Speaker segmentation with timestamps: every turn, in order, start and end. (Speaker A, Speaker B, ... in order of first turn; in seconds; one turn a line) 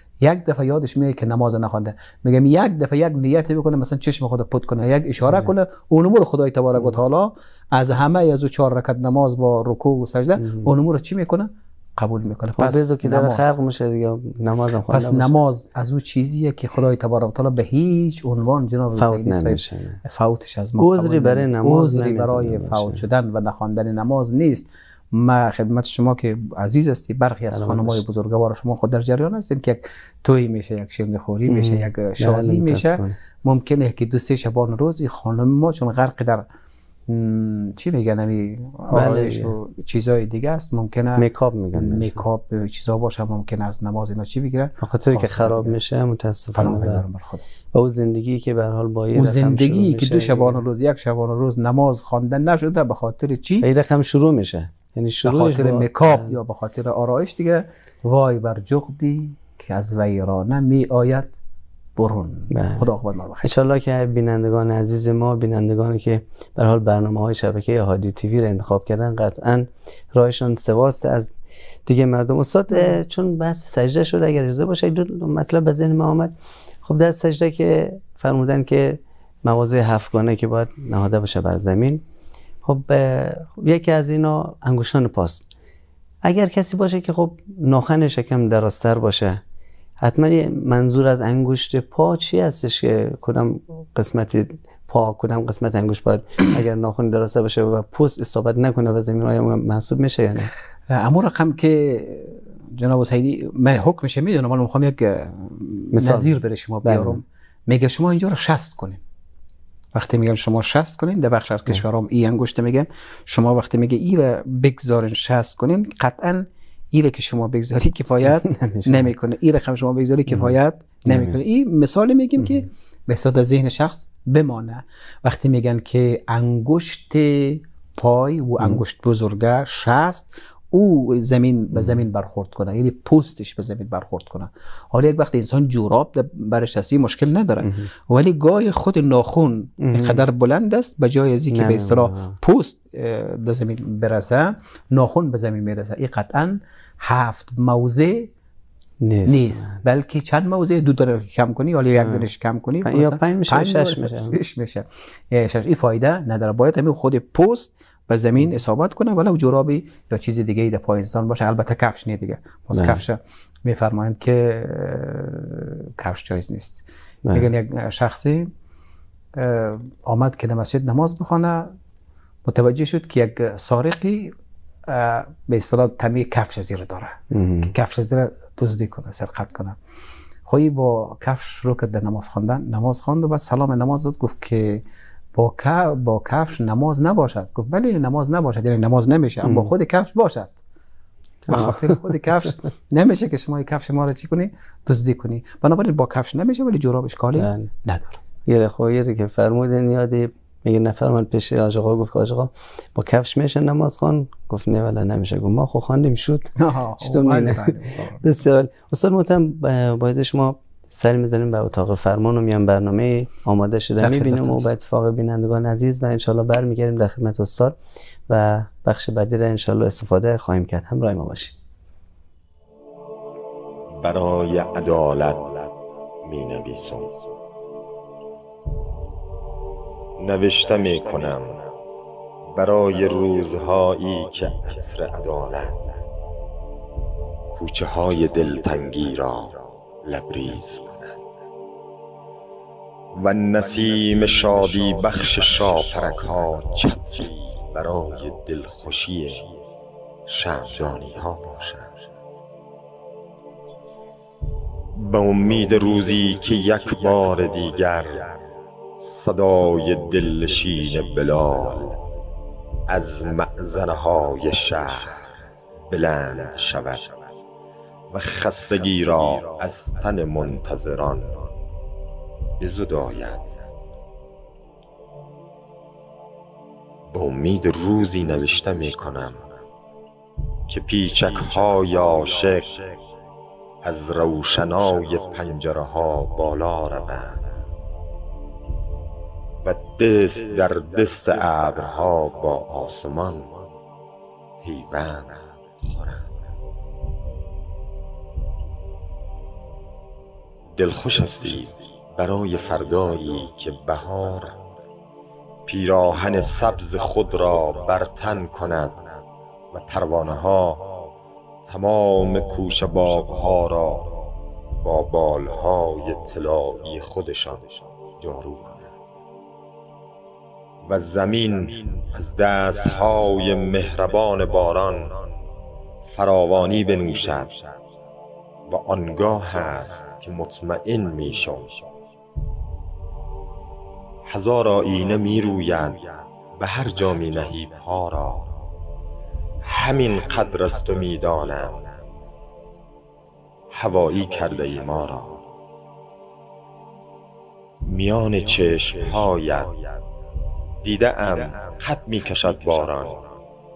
Speaker A: 0.2-13.5
Speaker B: 10.4-10.7
Speaker B: 12.6-15.3
Speaker A: 14.9-36.5
Speaker B: 19.0-20.0
Speaker B: 20.8-23.0
Speaker B: 27.5-28.0
Speaker B: 31.5-33.2
Speaker A: 37.1-45.8
Speaker B: 38.9-39.5
Speaker B: 41.2-42.2
Speaker B: 44.8-47.0
Speaker A: 46.5-47.4
Speaker B: 47.7-50.6
Speaker A: 49.1-53.7
Speaker B: 53.6-56.4
Speaker A: 55.2-61.3
Speaker A: 62.0-63.5
Speaker B: 62.5-62.9
Speaker B: 63.4-76.3
Speaker B: 76.8-82.0
Speaker B: 82.6-85.5
Speaker B: 86.2-89.4
Speaker B: 90.0-100.5
Speaker A: 100.9-109.0
Speaker B: 105.9-106.3
Speaker B: 106.8-107.2
Speaker A: 109.9-148.3
Speaker B: 118.5-119.1
Speaker B: 120.3-120.5
Speaker B: 121.1-121.4
Speaker B: 131.7-132.0
Speaker B: 137.6-137.9
Speaker B: 139.8-140.2
Speaker B: 141.5-142.4
Speaker B: 149.0-149.8
Speaker A: 149.3-168.5
Speaker B: 152.0-152.3
Speaker B: 152.8-154.4
Speaker B: 162.7-163.0
Speaker A: 169.3-171.7
Speaker A: 172.4-174.3
Speaker A: 174.9-179.8
Speaker B: 177.3-177.7
Speaker A: 180.5-190.6
Speaker B: 189.4-189.7
Speaker B: 191.5-192.0
Speaker A: 191.5-198.2
Speaker B: 197.4-197.7
Speaker B: 198.5-217.8
Speaker A: 206.6-208.2
Speaker A: 214.0-214.7
Speaker B: 218.3-221.6
Speaker C: 224.0-227.2
Speaker C: 230.2-231.6
Speaker C: 232.5-235.9
Speaker C: 237.5-241.2
Speaker C: 243.1-249.5
Speaker C: 250.3-251.9
Speaker C: 254.9-258.4
Speaker C: 259.0-262.0
Speaker C: 262.9-265.2
Speaker C: 265.9-267.2
Speaker C: 268.1-271.5
Speaker C: 272.6-273.6
Speaker C: 277.1-279.5
Speaker C: 280.7-282.9
Speaker C: 283.8-287.5
Speaker C: 289.6-293.6
Speaker C: 294.6-296.3
Speaker C: 300.8-304.6
Speaker C: 305.7-309.2
Speaker C: 309.7-311.1
Speaker C: 311.7-314.2
Speaker C: 314.8-318.9
Speaker C: 320.8-325.3
Speaker C: 326.1-327.8
Speaker C: 328.7-331.8
Speaker C: 334.3-338.6
Speaker C: 339.6-342.0
Speaker C: 343.7-345.4
Speaker C: 347.8-350.0
Speaker C: 350.8-353.4